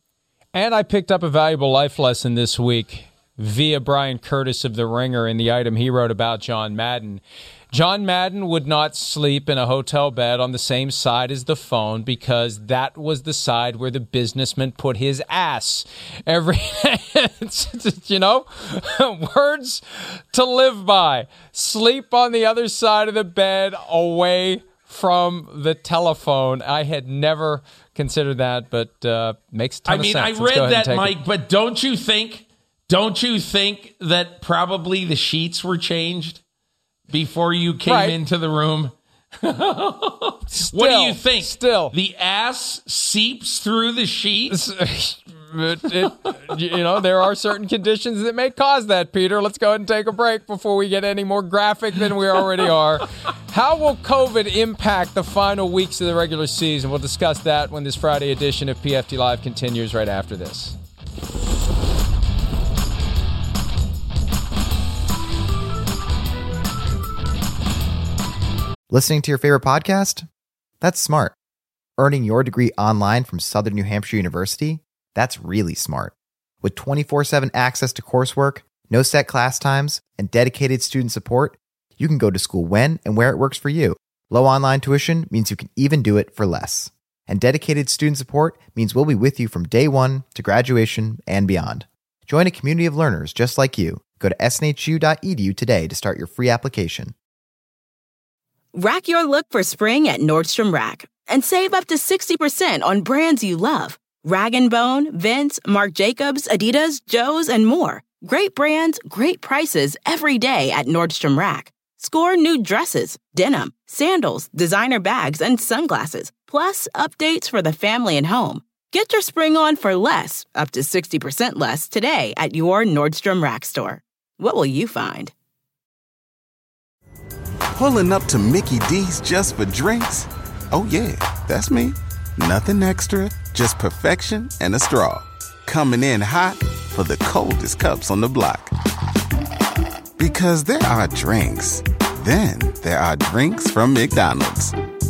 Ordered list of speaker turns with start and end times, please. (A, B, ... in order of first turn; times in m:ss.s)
0:00.5-0:31.1 A
0:29.8-0:36.4 B
0:37.1-0:44.6 B
0:37.9-0:38.2 A
0:40.5-0:41.9 A
0:44.5-1:00.8 A
1:08.9-1:10.2 C
1:10.8-1:11.3 C
1:12.0-1:37.1 C
1:38.7-2:05.3 D
2:07.7-2:18.7 E
2:20.2-2:24.7 E